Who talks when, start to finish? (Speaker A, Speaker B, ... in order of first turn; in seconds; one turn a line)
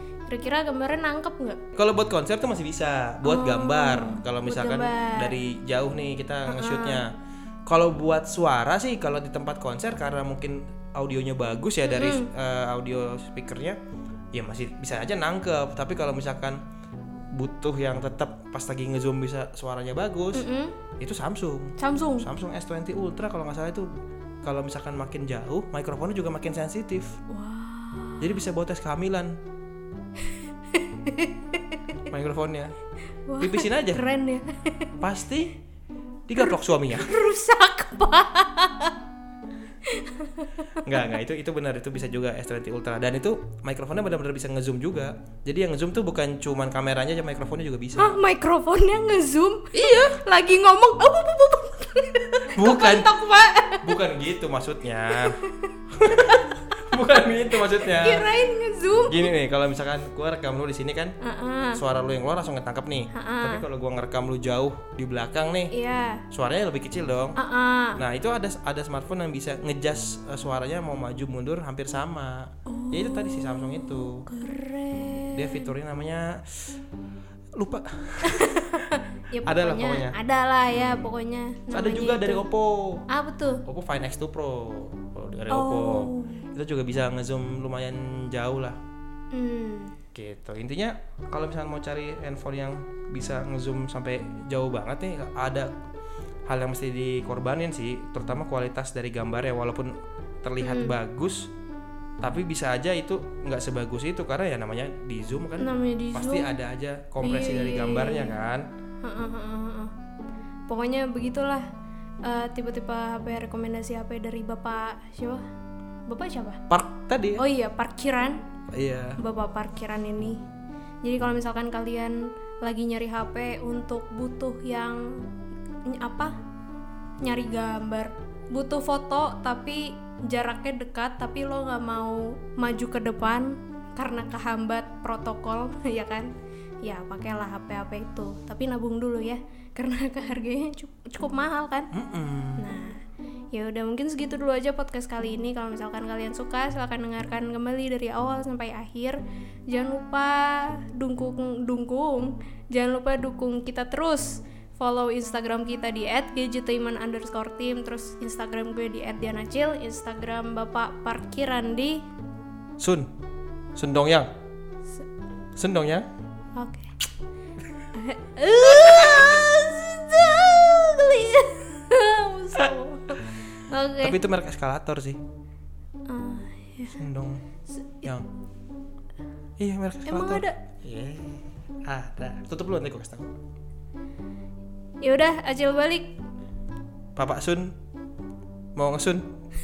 Speaker A: 0.3-1.6
Speaker B: 1.8-7.1
Speaker A: 3.2-5.4
Speaker A: 6.5-7.0
Speaker B: 7.7-13.8
Speaker A: 11.8-12.3
Speaker B: 14.3-16.6
Speaker B: 17.3-20.5
Speaker A: 20.3-20.8
Speaker B: 21.0-23.9
Speaker A: 21.8-22.3
Speaker B: 24.4-27.1
Speaker A: 27.3-28.4
Speaker B: 28.2-29.4
Speaker A: 30.7-32.0
Speaker B: 32.1-32.7
Speaker A: 33.3-34.9
Speaker B: 33.4-34.0
Speaker B: 35.0-35.5
Speaker B: 36.3-37.2
Speaker A: 36.4-39.0
Speaker A: 39.9-40.9
Speaker B: 40.8-48.2
Speaker A: 48.0-53.9
Speaker B: 52.5-53.1
Speaker B: 53.8-55.4
Speaker A: 55.1-56.8
Speaker B: 55.9-58.3
Speaker A: 57.8-59.3
Speaker B: 59.1-61.1
Speaker A: 61.2-61.8
Speaker B: 61.7-65.7
Speaker A: 63.1-63.6
Speaker A: 65.7-66.2
Speaker B: 66.3-67.4
Speaker A: 67.4-68.0
Speaker B: 68.0-74.3
Speaker A: 72.7-75.7
Speaker B: 75.3-76.7
Speaker B: 77.6-78.7
Speaker A: 78.2-82.5
Speaker B: 79.5-80.2
Speaker B: 80.7-81.1
Speaker B: 81.7-83.0
Speaker A: 83.1-83.6
Speaker B: 83.7-88.8
Speaker A: 85.5-86.5
Speaker A: 89.3-90.0
Speaker B: 90.1-95.7
Speaker B: 96.5-101.5
Speaker A: 100.6-101.0
Speaker B: 102.2-108.7
Speaker A: 105.6-106.5
Speaker A: 107.2-108.4
Speaker A: 109.0-109.9
Speaker A: 110.7-111.7
Speaker A: 112.2-115.4
Speaker A: 116.1-116.6
Speaker B: 116.7-117.4
Speaker A: 117.4-118.4
Speaker B: 118.7-119.2
Speaker A: 119.2-120.4
Speaker A: 121.0-125.1
Speaker A: 125.9-126.3
Speaker A: 127.2-136.3
Speaker A: 136.8-141.9
Speaker B: 141.9-142.7
Speaker A: 142.6-143.0
Speaker A: 143.5-149.2
Speaker A: 149.7-162.0
Speaker B: 162.8-163.1
Speaker B: 163.8-164.3
Speaker B: 165.6-166.1
Speaker A: 166.6-166.9
Speaker A: 167.9-174.2
Speaker B: 174.0-175.2
Speaker A: 176.1-177.0
Speaker B: 176.9-177.4
Speaker A: 177.8-178.1
Speaker B: 179.6-183.3
Speaker A: 180.1-180.6
Speaker A: 185.0-186.1
Speaker B: 187.2-187.8
Speaker B: 188.8-189.2